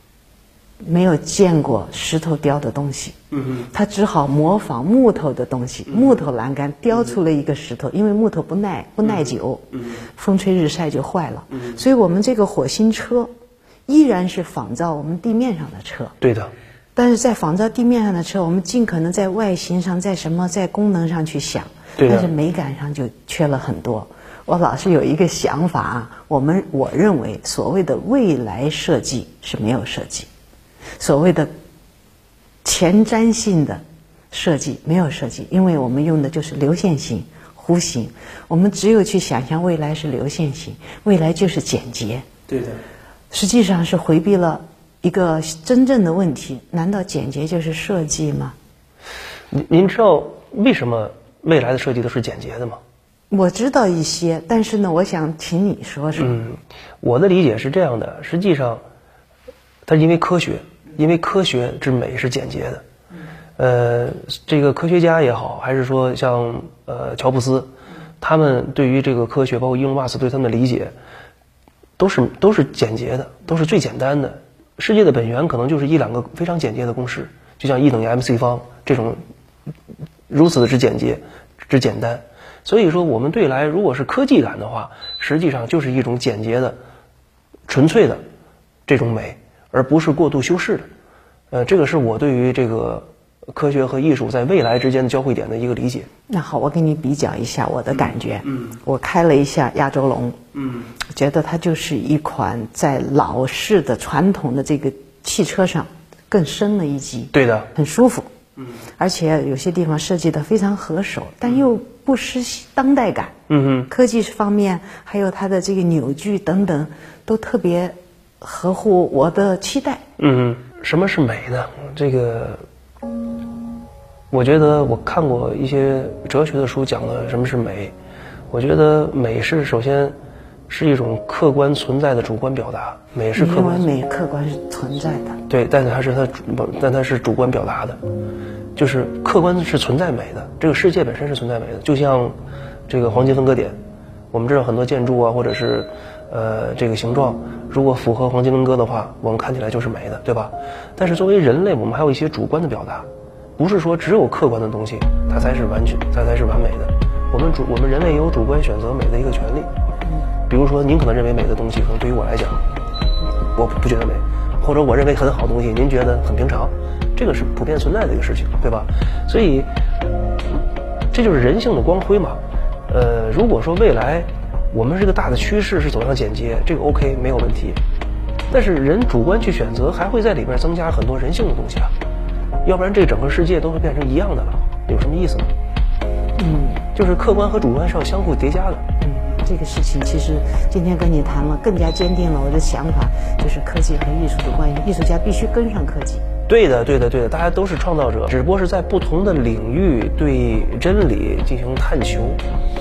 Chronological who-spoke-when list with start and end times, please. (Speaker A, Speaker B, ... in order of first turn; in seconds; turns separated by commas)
Speaker A: 0.8-3.2, Speaker B: 3.3-3.7, Speaker A: 3.7-13.3, Speaker A: 13.9-16.1, Speaker B: 16.2-16.5, Speaker A: 16.9-30.3, Speaker B: 22.0-22.3, Speaker A: 31.0-31.5, Speaker A: 32.6-42.2, Speaker B: 42.5-42.8, Speaker A: 43.3-48.5, Speaker B: 49.5-52.8, Speaker A: 53.3-56.4, Speaker B: 56.1-58.8, Speaker B: 59.9-62.8, Speaker B: 63.6-67.7, Speaker B: 68.2-70.9, Speaker B: 72.0-79.2, Speaker B: 80.3-86.8, Speaker B: 87.7-88.2, Speaker B: 88.9-90.9, Speaker B: 91.5-96.1, Speaker A: 96.3-100.4, Speaker B: 100.5-100.9, Speaker A: 101.1-108.3, Speaker B: 107.3-107.7, Speaker A: 109.0-113.3, Speaker B: 113.5-113.9, Speaker A: 113.9-120.0, Speaker B: 120.2-122.6, Speaker B: 124.3-127.9, Speaker B: 128.5-130.1, Speaker B: 130.7-133.8, Speaker A: 133.3-135.4, Speaker B: 135.5-138.0, Speaker B: 138.8-142.3, Speaker B: 142.9-143.8, Speaker B: 144.3-159.7, Speaker B: 160.5-162.6, Speaker B: 163.5-169.7, Speaker B: 171.1-177.8, Speaker B: 178.5-181.9, Speaker B: 182.6-185.5, Speaker A: 186.4-186.8, Speaker B: 186.9-188.8, Speaker A: 189.0-196.2, Speaker B: 196.5-202.4